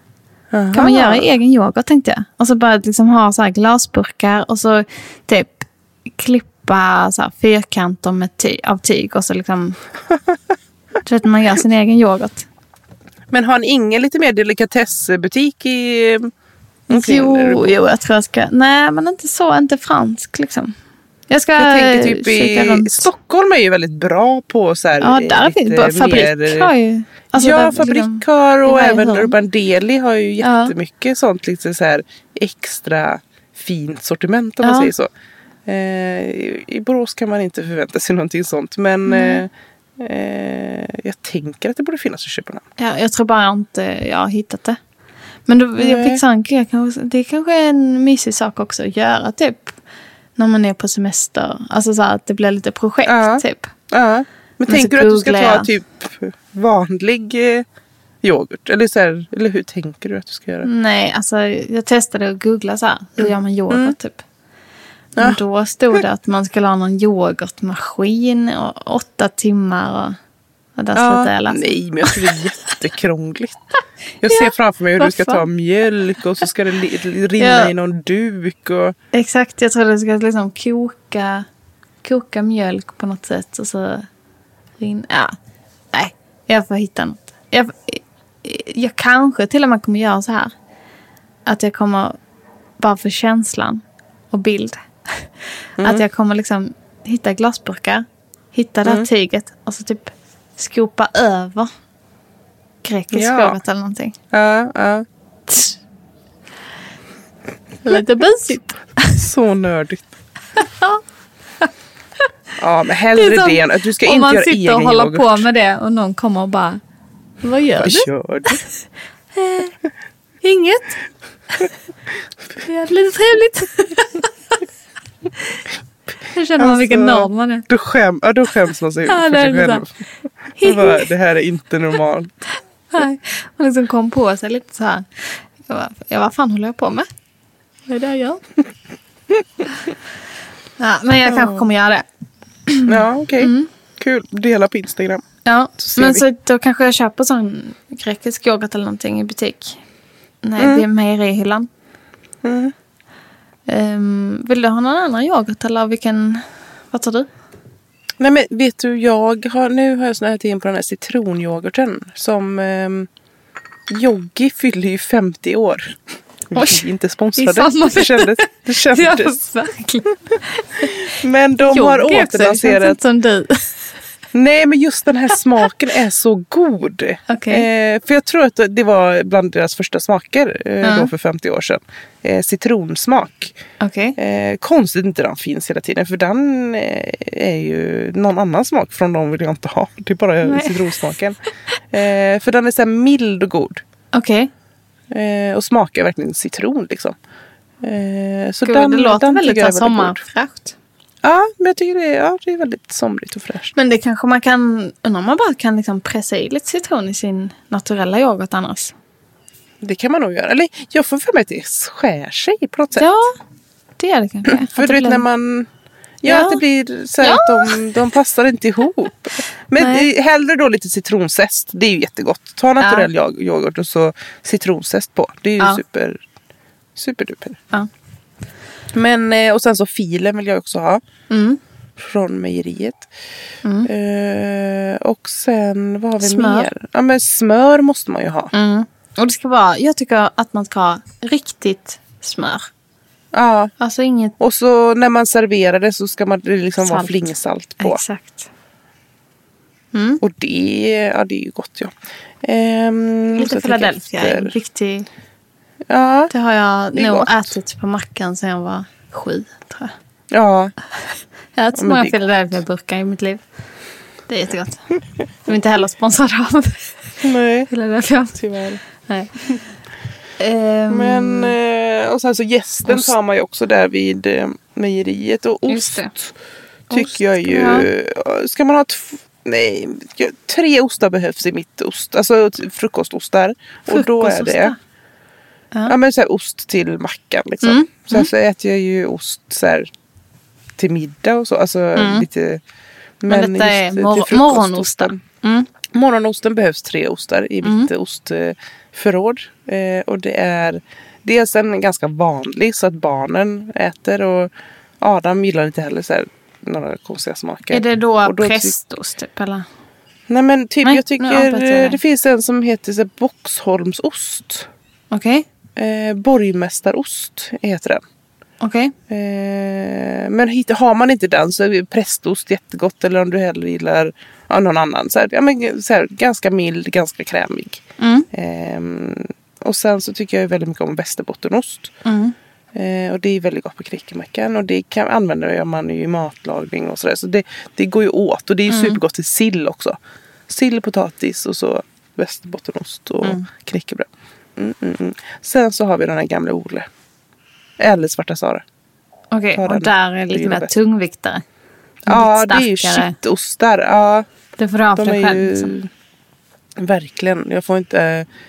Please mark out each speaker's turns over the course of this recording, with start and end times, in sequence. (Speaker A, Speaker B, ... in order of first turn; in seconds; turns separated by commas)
Speaker A: 0.5-1.3, Speaker B: 0.7-9.8, Speaker B: 11.0-12.4, Speaker A: 13.3-16.3, Speaker A: 16.9-17.7, Speaker B: 16.9-20.7, Speaker B: 21.3-23.1, Speaker A: 21.6-26.7, Speaker B: 25.0-29.3, Speaker A: 27.3-35.1, Speaker B: 30.4-30.7, Speaker B: 34.6-34.9, Speaker A: 35.6-42.6, Speaker B: 39.0-39.4, Speaker B: 42.8-44.8, Speaker B: 45.5-49.8, Speaker A: 45.8-46.2, Speaker B: 50.4-53.7, Speaker A: 53.0-57.6, Speaker B: 54.7-55.7, Speaker A: 58.2-60.7, Speaker B: 60.6-64.2, Speaker A: 63.2-63.9, Speaker A: 65.2-65.4, Speaker B: 65.2-70.2, Speaker B: 70.8-72.4, Speaker A: 70.9-73.6, Speaker A: 74.2-78.9, Speaker B: 74.3-75.4, Speaker B: 77.4-77.7, Speaker B: 79.1-81.5, Speaker B: 82.0-84.1, Speaker B: 84.8-85.3, Speaker B: 85.9-90.5, Speaker B: 91.5-92.2, Speaker B: 92.8-101.7, Speaker A: 95.8-96.0, Speaker B: 102.8-104.2, Speaker A: 103.1-103.6, Speaker A: 104.3-105.0, Speaker B: 105.5-105.8, Speaker B: 107.8-109.2, Speaker A: 109.1-110.1, Speaker B: 110.6-111.0, Speaker A: 112.6-115.5, Speaker B: 113.1-116.8, Speaker B: 117.4-118.6, Speaker A: 117.8-118.6, Speaker B: 119.3-119.7, Speaker B: 120.4-121.0, Speaker B: 122.6-124.3, Speaker B: 126.3-127.7, Speaker A: 126.6-129.9, Speaker B: 129.1-129.8, Speaker B: 130.6-131.1, Speaker A: 130.6-132.3, Speaker B: 132.9-137.1, Speaker B: 137.9-138.4, Speaker B: 140.8-142.0, Speaker A: 141.2-141.6, Speaker B: 142.7-143.7, Speaker A: 142.8-145.2, Speaker B: 145.4-149.8, Speaker A: 145.8-146.2, Speaker B: 150.4-151.7, Speaker A: 150.6-150.8, Speaker A: 152.4-152.7, Speaker B: 153.7-157.3, Speaker A: 158.2-163.1, Speaker A: 163.9-166.0, Speaker A: 166.5-169.3, Speaker B: 166.5-166.8, Speaker B: 167.4-173.9, Speaker A: 170.8-173.0, Speaker A: 174.3-183.6, Speaker B: 177.3-177.7, Speaker B: 180.8-181.1, Speaker B: 183.8-184.2, Speaker A: 184.2-191.4, Speaker B: 190.4-191.1, Speaker A: 191.9-193.8, Speaker B: 194.1-194.5, Speaker A: 195.1-197.2, Speaker A: 197.8-200.2, Speaker B: 198.6-200.7, Speaker A: 201.2-203.7, Speaker B: 203.8-208.9, Speaker A: 209.8-213.1, Speaker B: 212.9-213.3, Speaker B: 214.0-215.2, Speaker A: 214.5-215.7, Speaker A: 216.2-226.2, Speaker B: 216.2-216.6, Speaker B: 217.2-217.9, Speaker B: 219.8-220.1, Speaker B: 222.8-223.1, Speaker A: 226.9-227.6, Speaker A: 228.9-231.0, Speaker B: 231.3-231.6, Speaker A: 232.0-233.1, Speaker B: 233.6-233.9, Speaker A: 233.8-238.5, Speaker B: 236.2-236.7, Speaker B: 238.5-242.7, Speaker A: 243.3-243.7, Speaker B: 243.8-244.4, Speaker A: 244.4-248.0, Speaker B: 246.8-247.2, Speaker B: 247.8-248.5, Speaker B: 249.9-250.2, Speaker A: 250.2-254.5, Speaker B: 253.3-255.1, Speaker A: 255.9-256.3, Speaker B: 256.3-259.9, Speaker A: 256.9-257.5, Speaker A: 260.3-260.7, Speaker B: 261.6-263.4, Speaker A: 261.7-262.1, Speaker B: 264.3-267.1, Speaker A: 267.2-267.7, Speaker B: 267.7-269.6, Speaker A: 268.4-268.8, Speaker B: 270.4-271.5, Speaker A: 270.9-276.3, Speaker B: 272.9-273.1, Speaker B: 275.7-276.1, Speaker B: 276.9-277.9, Speaker A: 276.9-284.7, Speaker B: 283.9-284.8, Speaker A: 285.9-289.9, Speaker B: 287.6-288.3, Speaker A: 290.8-292.6, Speaker B: 291.9-292.2, Speaker A: 293.2-295.2, Speaker B: 293.3-295.7, Speaker A: 295.9-308.7, Speaker B: 297.6-297.9, Speaker B: 307.7-309.6, Speaker A: 310.3-314.7, Speaker B: 310.8-312.0, Speaker B: 315.1-315.4, Speaker A: 315.8-318.0, Speaker B: 318.6-318.9, Speaker A: 319.1-331.9, Speaker B: 328.0-328.3, Speaker B: 332.0-332.3, Speaker A: 332.7-346.9, Speaker B: 338.7-339.0, Speaker A: 347.8-348.6, Speaker B: 349.3-351.4, Speaker A: 349.6-350.7, Speaker B: 352.1-353.1, Speaker A: 352.1-354.2, Speaker B: 354.6-355.7, Speaker A: 354.9-355.9, Speaker A: 356.8-358.3